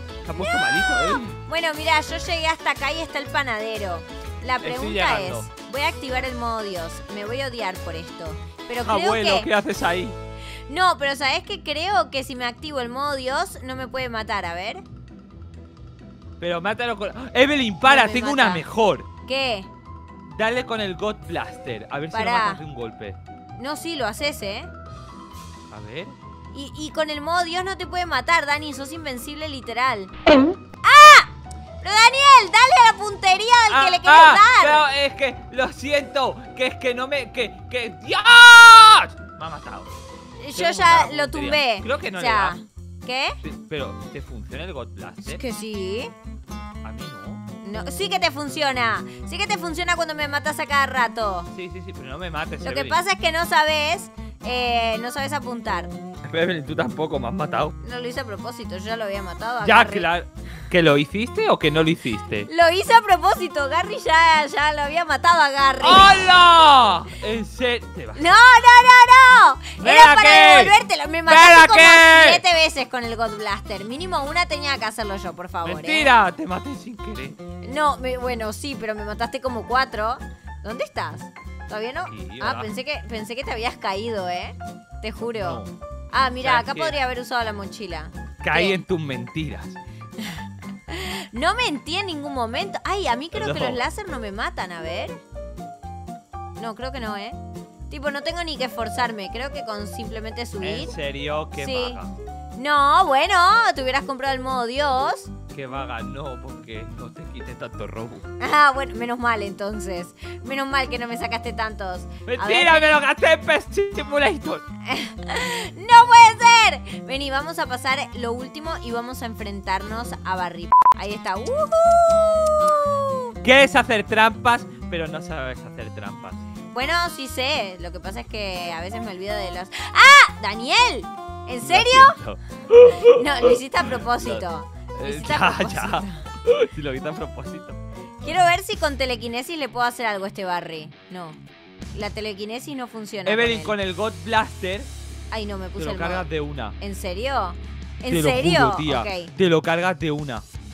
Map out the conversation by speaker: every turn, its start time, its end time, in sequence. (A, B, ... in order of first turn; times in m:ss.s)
0:00.2-0:01.4 A
0:00.4-0:09.5 B
0:04.6-0:05.5 A
0:08.8-0:10.2 A
0:10.7-0:14.8 B
0:16.4-0:19.1 A
0:17.8-0:18.6 B
0:19.2-0:19.7 B
0:20.2-0:23.2 A
0:22.1-0:22.6 B
0:23.6-0:24.7 B
0:25.7-0:26.2 A
0:26.5-0:30.1 B
0:30.8-0:34.8 B
0:33.7-0:40.0 A
0:40.4-0:43.4 B
0:40.5-0:42.6 A
0:43.4-0:45.4 A
0:45.2-0:46.1 B
0:46.8-0:47.4 A
0:47.6-0:51.5 B
0:51.5-0:53.0 A
0:52.6-0:55.9 B
0:56.2-0:57.8 A
0:57.8-1:00.1 B
0:59.6-1:02.5 A
1:02.5-1:06.2 B
1:05.8-1:08.2 A
1:08.2-1:16.1 B
1:09.8-1:12.4 A
1:15.6-1:17.4 A
1:17.6-1:28.8 B
1:22.1-1:22.7 A
1:25.4-1:25.7 A
1:26.4-1:27.0 A
1:28.4-1:29.8 A
1:30.2-1:35.2 B
1:33.3-1:33.8 A
1:36.6-1:37.4 B
1:37.9-1:40.9 B
1:40.6-1:42.2 A
1:41.6-1:42.0 B
1:42.6-1:45.3 B
1:45.5-1:48.3 A
1:48.4-1:53.0 B
1:52.2-1:54.6 A
1:54.8-2:03.3 B
2:03.4-2:06.4 A
2:06.7-2:12.2 B
2:11.6-2:17.8 A
2:13.0-2:16.2 B
2:18.2-2:21.4 B
2:21.9-2:23.7 B
2:23.2-2:24.9 A
2:25.3-2:26.3 B
2:25.8-2:26.8 A
2:26.8-2:29.3 B
2:28.1-2:30.4 A